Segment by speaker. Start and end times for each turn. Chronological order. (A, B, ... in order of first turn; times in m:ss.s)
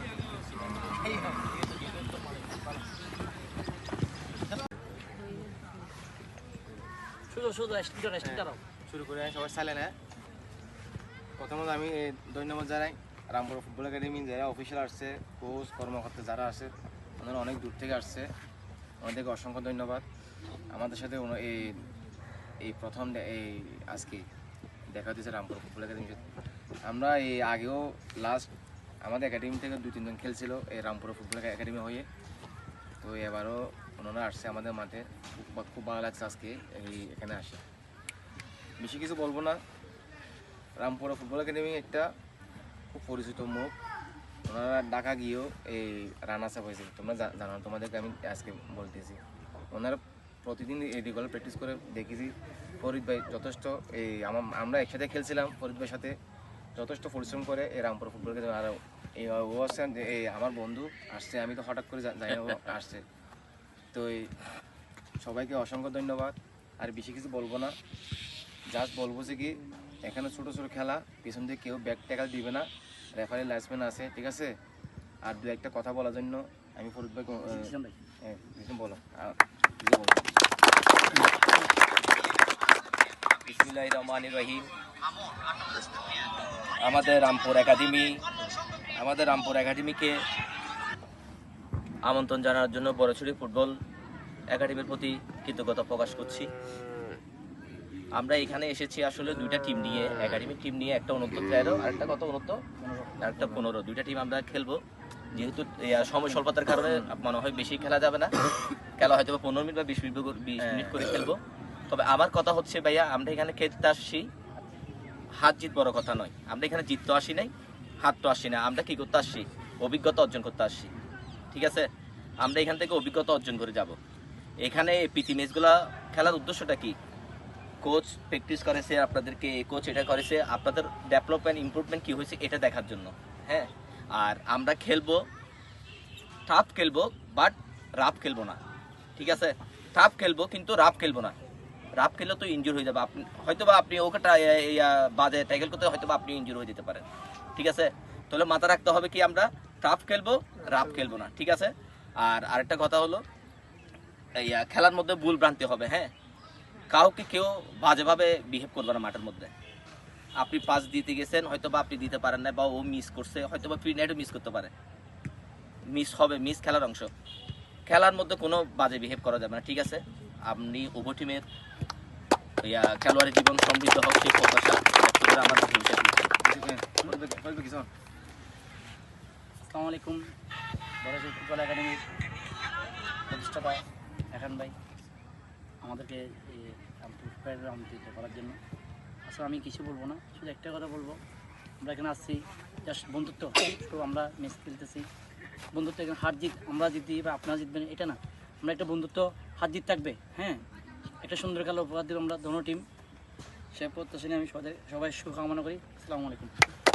0:01.1-0:01.4 A
0:07.3-0:08.6 A
0:08.2-0:09.9 B
0:11.4-0:18.3 B
0:19.0-0:20.0 B
0:20.7-0:21.8 B
0:22.6-0:24.2 B
0:24.9-0:26.2 B
0:26.8-0:28.5 B
0:29.0-0:32.0 B
0:33.0-0:37.6 B
0:38.8-0:39.6 B
0:40.8-0:42.1 B
0:42.9-0:43.7 B
0:44.5-0:49.2 B
0:49.7-0:56.1 B
0:56.8-1:03.0 B
1:02.3-1:02.6 C
1:03.9-1:04.3 B
1:05.2-1:07.7 B
1:08.7-1:14.5 B
1:15.2-1:17.7 B
1:17.4-1:17.9 A
1:18.2-1:20.2 B
1:21.1-1:21.6 A
1:23.4-1:24.7 C
1:26.8-1:28.2 C
1:29.0-1:30.2 C
1:32.0-1:33.8 C
1:34.5-1:36.5 C
1:38.2-1:42.6 C
1:42.8-1:43.7 A
1:43.2-1:44.8 C
1:45.3-1:48.3 C
1:49.0-1:51.4 C
1:50.6-1:51.0 B
1:51.9-1:54.3 C
1:55.4-2:00.9 C
2:01.5-2:01.9 C
2:02.4-2:04.0 C
2:04.6-2:07.0 C
2:07.8-2:15.2 C
2:16.5-2:18.6 C
2:19.2-2:21.3 C
2:22.0-2:33.2 C
2:34.4-2:36.1 C
2:36.9-2:39.5 C
2:40.4-2:44.7 C
2:45.9-2:47.1 C
2:47.9-2:51.4 C
2:52.6-2:56.1 C
2:56.4-2:57.9 B
2:59.6-3:00.2 A
3:01.0-3:02.0 A
3:03.3-3:04.7 A
3:05.8-3:08.6 A
3:09.3-3:11.2 A
3:11.8-3:15.1 A
3:15.7-3:20.6 A
3:21.2-3:22.8 A
3:23.7-3:26.6 A